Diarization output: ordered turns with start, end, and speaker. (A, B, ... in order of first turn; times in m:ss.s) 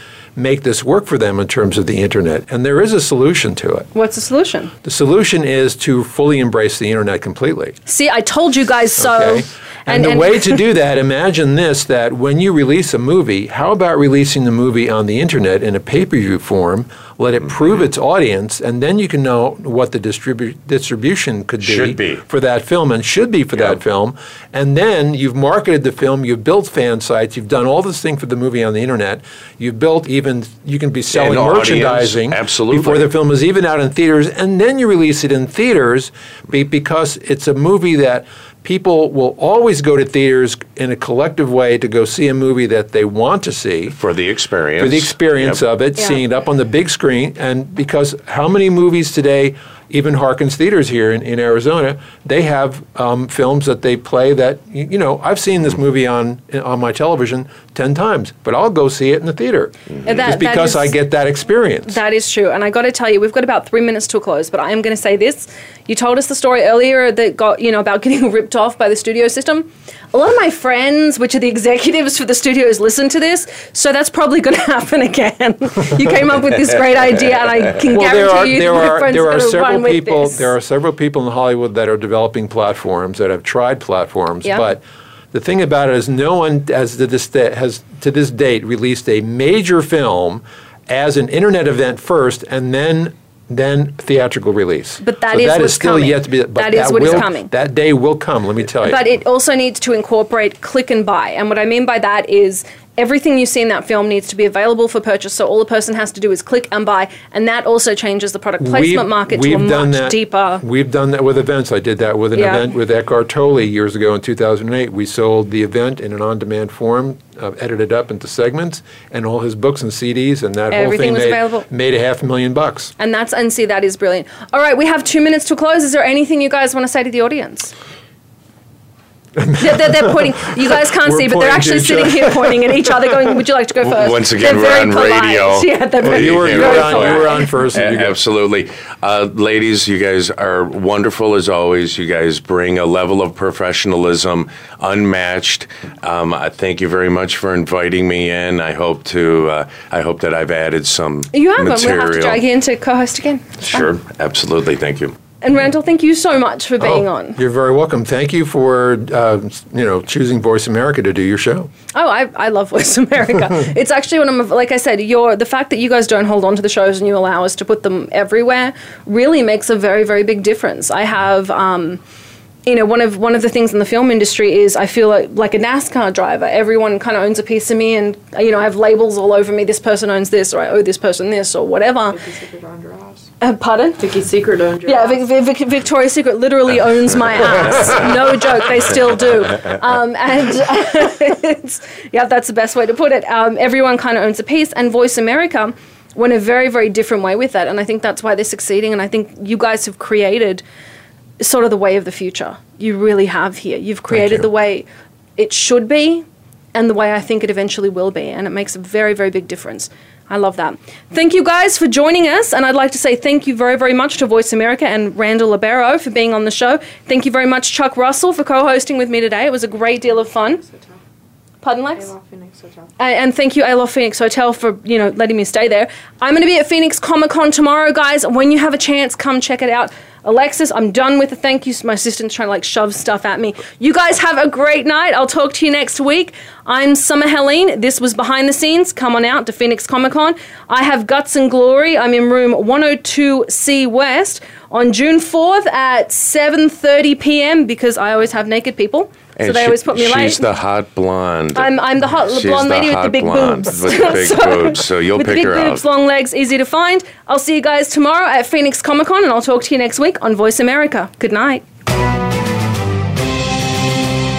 0:00.4-0:03.9 A
0:03.9-0:04.7 B
0:04.8-0:07.8 A
0:07.9-0:10.6 B
0:09.0-0:44.0 A
0:21.6-0:22.2 C
0:31.1-0:33.1 C
0:44.0-0:45.6 C
0:44.8-1:02.0 A
1:00.0-1:01.0 B
1:01.9-1:20.5 B
1:17.9-1:39.1 A
1:35.0-1:37.5 B
1:38.8-1:50.6 B
1:48.6-2:02.9 A
1:52.4-1:52.6 B
2:00.7-2:01.7 B
2:03.0-2:07.7 B
2:09.4-2:13.3 A
2:09.6-2:17.7 B
2:13.8-2:32.4 C
2:16.0-2:18.2 A
2:31.3-2:33.9 B
2:33.6-2:35.2 C
2:35.4-2:37.4 B
2:36.8-2:41.7 A
2:41.9-2:52.0 B
2:52.7-3:02.2 B
3:02.1-3:03.3 D
3:03.4-3:04.0 B
3:04.0-3:05.3 D
3:04.8-3:20.6 B
3:21.4-3:24.9 B
3:24.1-3:24.5 A
3:25.4-3:40.6 B
3:40.0-3:41.0 D
3:41.6-3:42.1 B
3:41.9-3:42.9 D
3:43.0-4:10.5 B
4:09.4-4:15.8 C
4:11.6-4:21.6 B